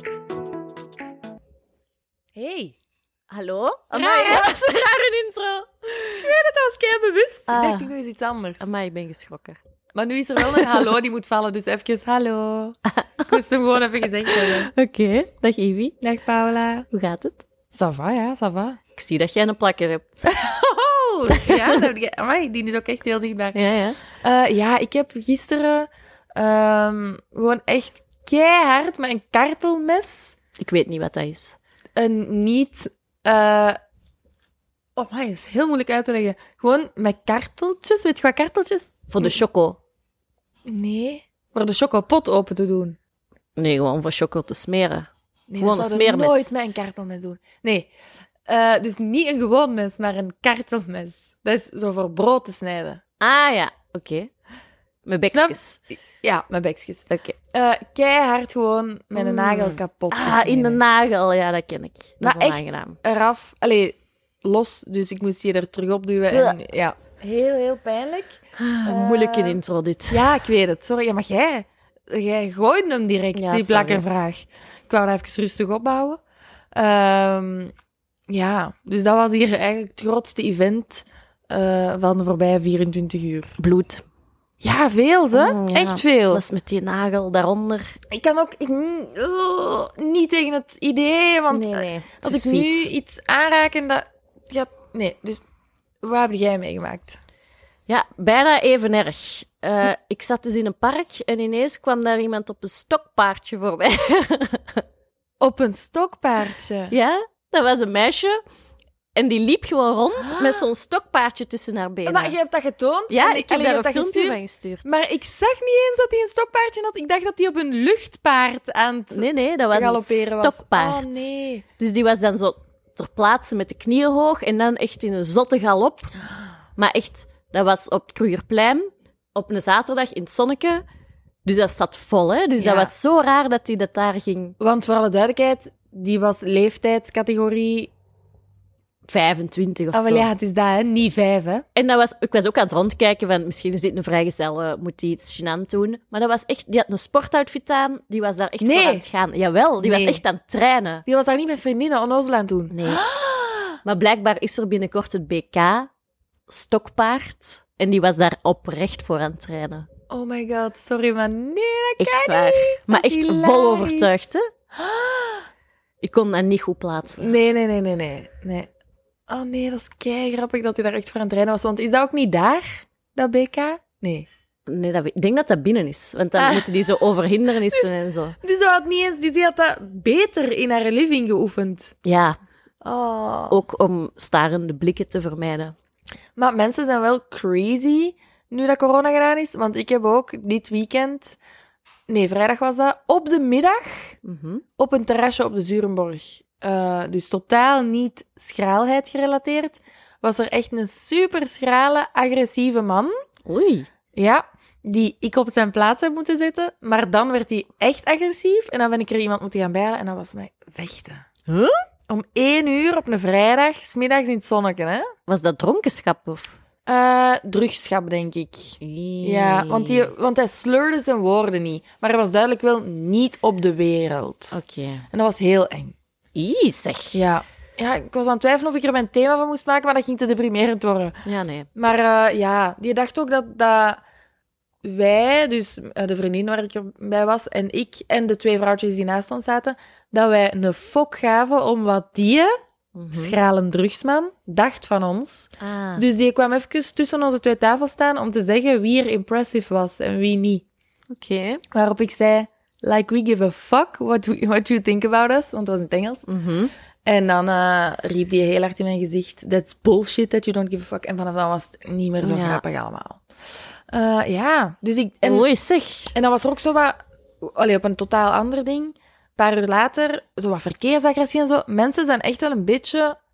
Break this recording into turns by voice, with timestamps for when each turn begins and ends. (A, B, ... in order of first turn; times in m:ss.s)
0:02.4-0:02.8 A
0:03.3-0:06.3 B
0:03.9-0:04.5 A
0:06.2-0:08.7 A
0:07.5-0:07.9 B
0:08.6-0:09.6 B
0:09.9-0:14.7 A
0:10.4-0:10.8 B
0:14.2-0:15.9 B
0:16.0-0:16.8 A
0:16.9-0:17.4 B
0:17.7-0:18.8 A
0:18.9-0:20.3 B
0:20.2-0:23.6 A
0:21.3-0:21.8 B
0:23.5-0:24.0 B
0:24.2-0:30.4 A
0:30.6-0:31.6 B
0:32.0-0:33.8 A
0:35.0-0:39.4 A
0:39.1-0:39.8 B
0:40.6-0:43.0 A
0:43.6-0:45.1 B
0:45.5-0:47.9 A
0:45.6-0:46.5 B
0:48.5-0:53.0 A
0:53.2-0:54.3 B
0:55.0-0:55.8 B
0:55.3-1:00.8 A
0:57.1-0:57.4 B
0:59.1-1:03.0 B
1:02.2-1:09.6 A
1:06.3-1:06.6 B
1:08.6-1:10.3 B
1:10.1-1:16.2 A
1:13.3-1:14.0 B
1:16.7-1:17.7 A
1:18.3-1:23.6 A
1:23.6-1:24.0 B
1:24.6-1:26.4 A
1:25.3-1:27.9 B
1:28.1-1:35.4 A
1:31.5-1:32.9 B
1:36.0-1:37.2 A
1:37.9-1:44.8 B
1:45.4-1:46.9 A
1:46.9-1:48.4 B
1:49.1-1:52.3 B
1:50.2-1:50.6 A
1:52.0-2:01.6 A
1:53.1-1:54.9 B
1:59.1-2:01.3 B
2:01.8-2:06.1 B
2:06.8-2:10.8 B
2:11.4-2:14.6 B
2:12.6-2:12.9 A
2:14.6-2:17.9 A
2:19.1-2:20.3 B
2:19.9-2:21.6 A
2:21.7-2:31.0 B
2:28.6-2:29.0 A
2:29.8-2:30.2 A
2:31.0-2:33.8 A
2:32.7-2:33.0 B
2:33.8-2:35.9 B
2:36.5-2:39.9 B
2:40.1-2:44.2 A
2:42.0-2:44.4 B
2:44.7-2:45.5 A
2:46.0-2:47.3 B
2:47.2-2:48.7 A
2:49.3-2:54.3 A
2:54.7-2:58.4 B
2:56.4-2:56.8 A
2:58.4-3:01.9 A
3:02.0-3:02.4 B
3:02.8-3:03.6 A
3:03.5-3:05.7 B
3:06.4-3:11.4 A
3:12.1-3:14.2 A
3:14.2-3:14.6 B
3:14.8-3:23.1 A
3:23.4-3:23.9 B
3:24.1-3:31.2 A
3:31.5-3:31.8 B
3:32.1-3:35.1 A
3:35.3-3:36.6 B
3:36.8-3:44.6 A
3:38.8-3:40.1 B
3:44.5-3:45.0 B
3:45.1-3:45.9 A
3:46.3-3:47.2 B
3:47.1-3:51.2 A
3:51.2-3:51.7 B
3:51.7-3:54.0 A
3:54.8-4:02.5 A
4:02.9-4:03.3 B
4:03.1-4:10.6 A
4:05.6-4:06.0 B
4:11.1-4:11.6 B
4:11.7-4:16.2 A
4:16.3-4:16.7 B
4:17.0-4:23.2 A
4:22.2-4:22.6 B
4:23.9-4:25.5 A
4:25.2-4:26.1 B
4:26.1-4:33.2 A